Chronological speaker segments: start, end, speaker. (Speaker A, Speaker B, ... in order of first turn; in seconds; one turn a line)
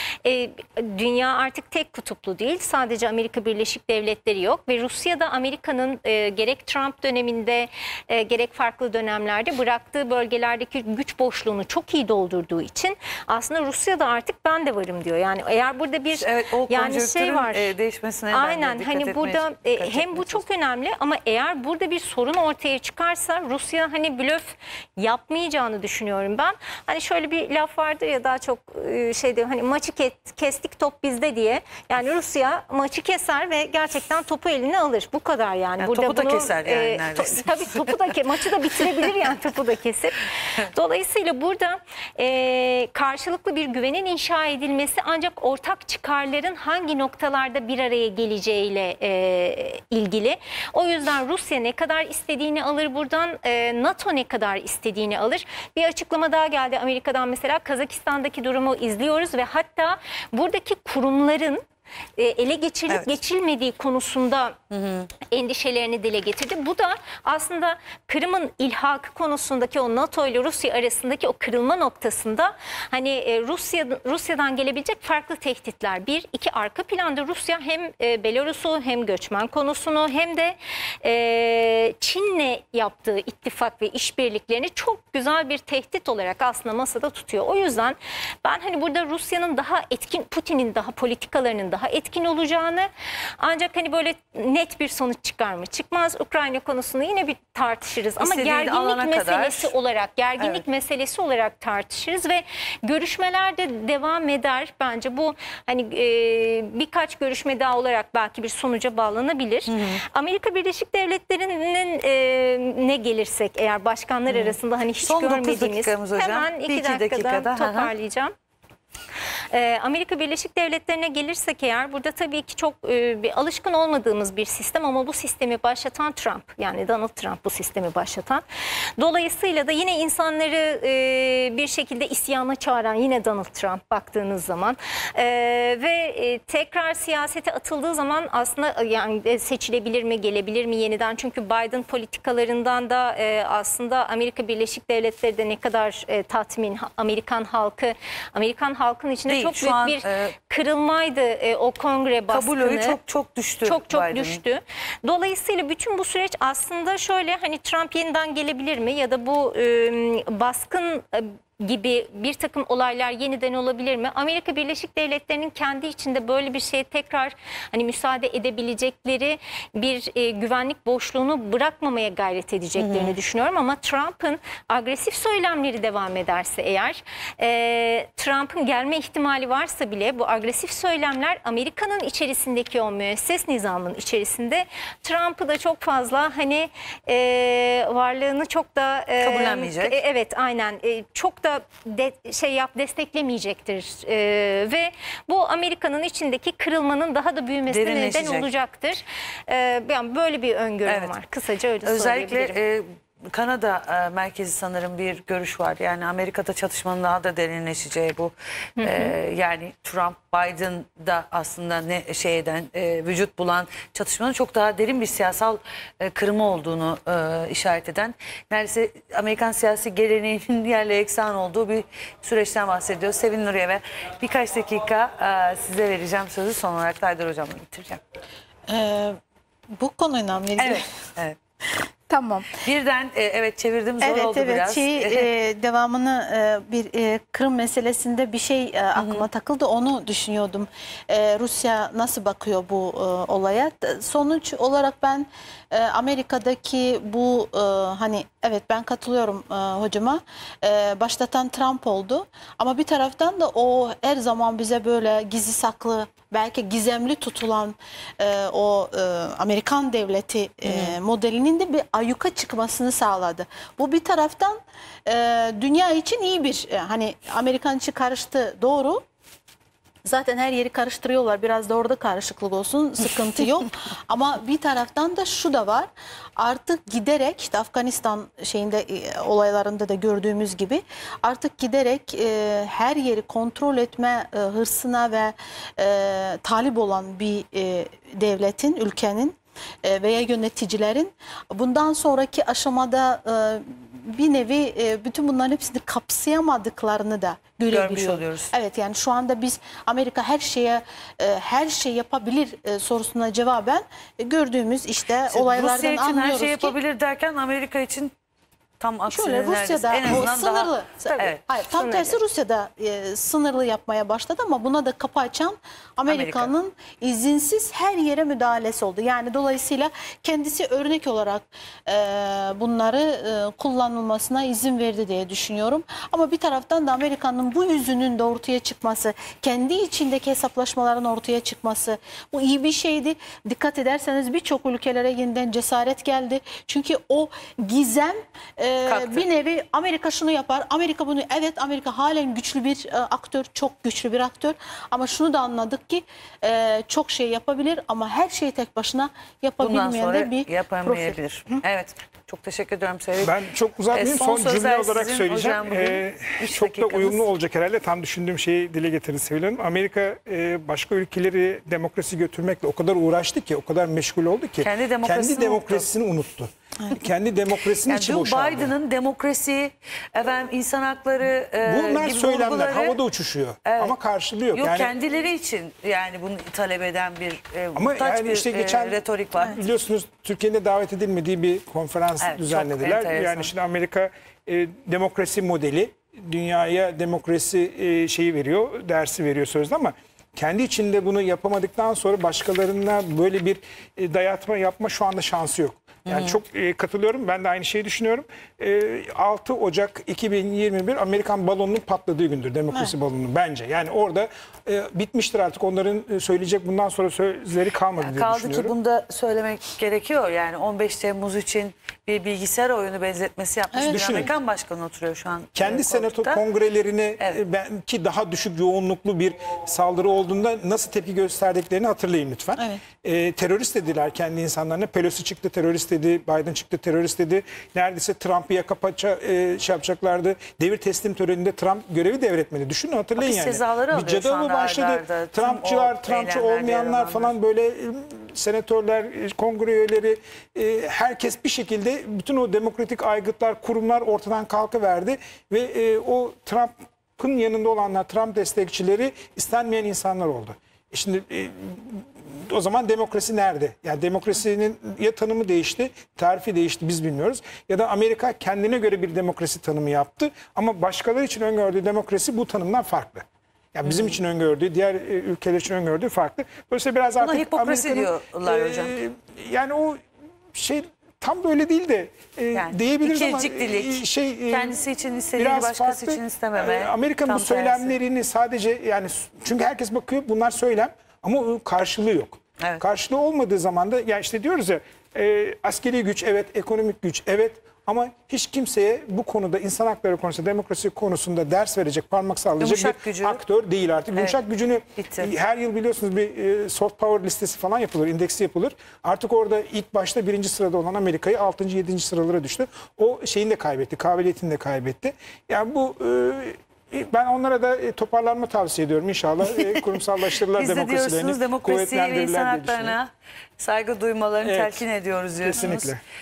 Speaker A: 0.2-17.7
Speaker B: 16.1-20.4
Speaker A: 18.3-61.6
Speaker B: 35.8-38.1
Speaker B: 38.8-39.1
Speaker A: 62.2-64.6
Speaker B: 62.9-63.1
Speaker B: 64.7-65.1
Speaker A: 65.3-118.3
Speaker B: 98.2-99.7
Speaker B: 100.4-100.6
Speaker B: 109.7-110.0
Speaker B: 114.3-117.9
Speaker A: 119.5-128.4
Speaker A: 129.0-153.0
Speaker B: 149.3-150.3
Speaker B: 152.3-154.4
Speaker A: 153.7-202.6
Speaker B: 172.8-173.2
Speaker B: 189.2-190.0
Speaker B: 197.7-198.5
Speaker B: 200.9-201.2
Speaker B: 201.8-228.0
Speaker A: 208.8-209.2
Speaker C: 228.7-229.2
Speaker C: 229.7-230.9
Speaker B: 230.6-231.4
Speaker C: 232.1-232.6
Speaker B: 232.6-235.3
Speaker C: 234.0-269.0
Speaker B: 239.0-239.3
Speaker B: 260.7-260.9
Speaker C: 270.1-306.8
Speaker B: 297.7-298.5
Speaker B: 305.3-308.1
Speaker B: 308.8-311.4
Speaker C: 309.1-351.6
Speaker A: 311.7-312.2
Speaker B: 316.1-316.5
Speaker B: 338.9-339.2
Speaker B: 349.6-353.4
Speaker D: 353.2-368.7
Speaker B: 353.9-357.3
Speaker B: 364.6-365.9
Speaker B: 367.9-373.0
Speaker D: 371.6-374.9
Speaker B: 373.6-373.9
Speaker B: 374.5-379.6
Speaker D: 377.8-408.8
Speaker B: 382.2-383.5
Speaker B: 396.1-396.4
Speaker B: 408.0-416.4
Speaker C: 413.7-414.3
Speaker D: 413.9-414.3
Speaker D: 415.6-474.8
Speaker C: 422.6-422.8
Speaker B: 433.2-437.3
Speaker B: 463.9-464.2
Speaker B: 467.2-468.9
Speaker B: 472.6-478.0
Speaker D: 475.4-513.0
Speaker B: 482.6-482.8
Speaker B: 492.6-493.4
Speaker B: 495.0-495.3
Speaker B: 510.5-516.0
Speaker D: 514.4-514.9
Speaker D: 515.4-516.0